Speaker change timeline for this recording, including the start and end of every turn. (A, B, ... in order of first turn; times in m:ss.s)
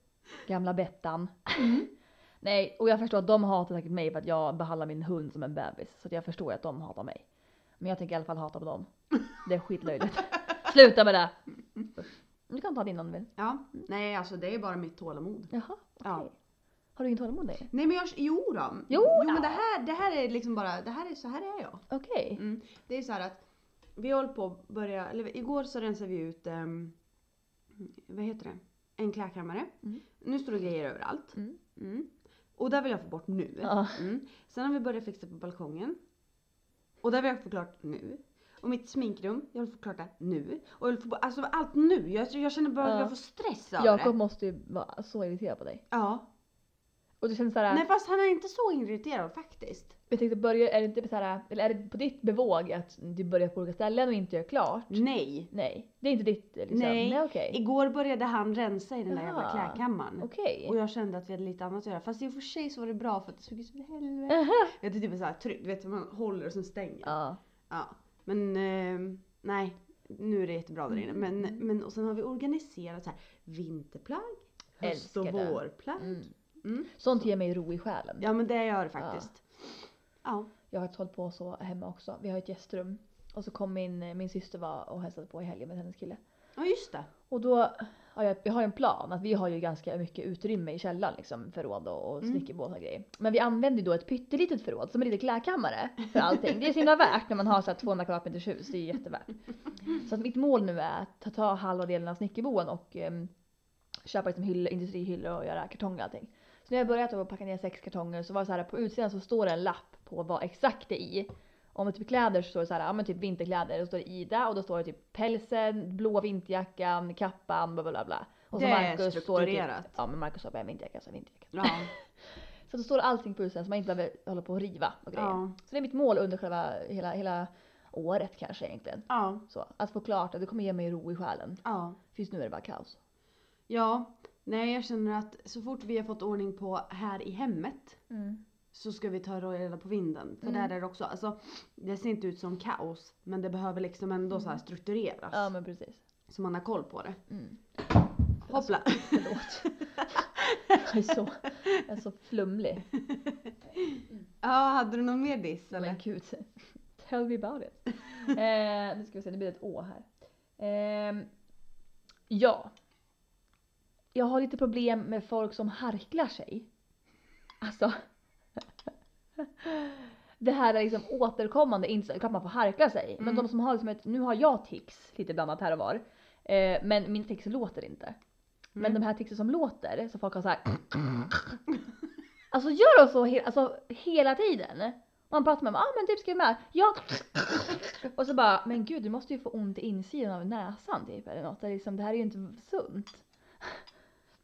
0:00.4-0:01.8 A
0:01.6-0:01.9 B
0:02.4-0:07.2 A
0:07.8-0:11.4 A
0:12.0-0:13.8 A
0:13.4-0:15.5 B
0:15.5-0:16.3 A
0:17.0-0:17.7 A
0:17.7-0:23.4 B
0:18.9-0:19.6 A
0:21.9-0:22.4 A
0:24.0-0:27.0 B
0:27.7-0:36.0 B
0:33.6-0:34.0 A
0:37.0-0:44.1 B
0:42.8-0:43.1 A
0:43.8-0:45.8 A
0:45.9-0:46.2 B
0:47.2-0:47.8 A
0:47.7-0:50.0 B
0:50.1-0:57.6 A
0:54.9-0:55.5 B
0:56.7-1:07.1 B
0:59.1-1:00.8 A
1:04.3-1:04.7 A
1:07.0-1:07.4 A
1:07.7-1:16.9 B
1:10.9-1:11.6 A
1:14.8-1:16.3 A
1:16.9-1:18.3 A
1:18.2-1:20.5 B
1:19.0-1:19.3 A
1:20.7-1:26.2 A
1:26.6-1:27.1 B
1:27.3-1:39.3 A
1:39.9-1:43.3 A
1:44.0-2:13.0 A
1:58.5-1:59.9 B
2:01.5-2:01.9 B
2:05.1-2:05.5 B
2:09.1-2:09.4 B
2:11.6-2:12.0 B
2:13.7-2:18.0 B
2:18.1-2:18.4 A
2:18.7-2:25.5 B
2:20.4-2:20.7 A
2:24.3-2:24.6 A
2:25.3-2:26.0 A
2:26.3-2:27.2 B
2:27.3-2:27.6 A
2:28.4-2:32.9 A
2:28.5-2:30.8 B
2:33.0-2:36.0 B
2:35.7-2:40.0 A
2:40.6-2:41.3 A
2:42.3-2:42.7 A
2:44.1-2:46.7 A
2:47.6-2:48.0 A
2:49.4-2:58.2 A
2:53.2-2:53.4 B
2:58.8-3:01.2 A
3:02.5-3:13.8 A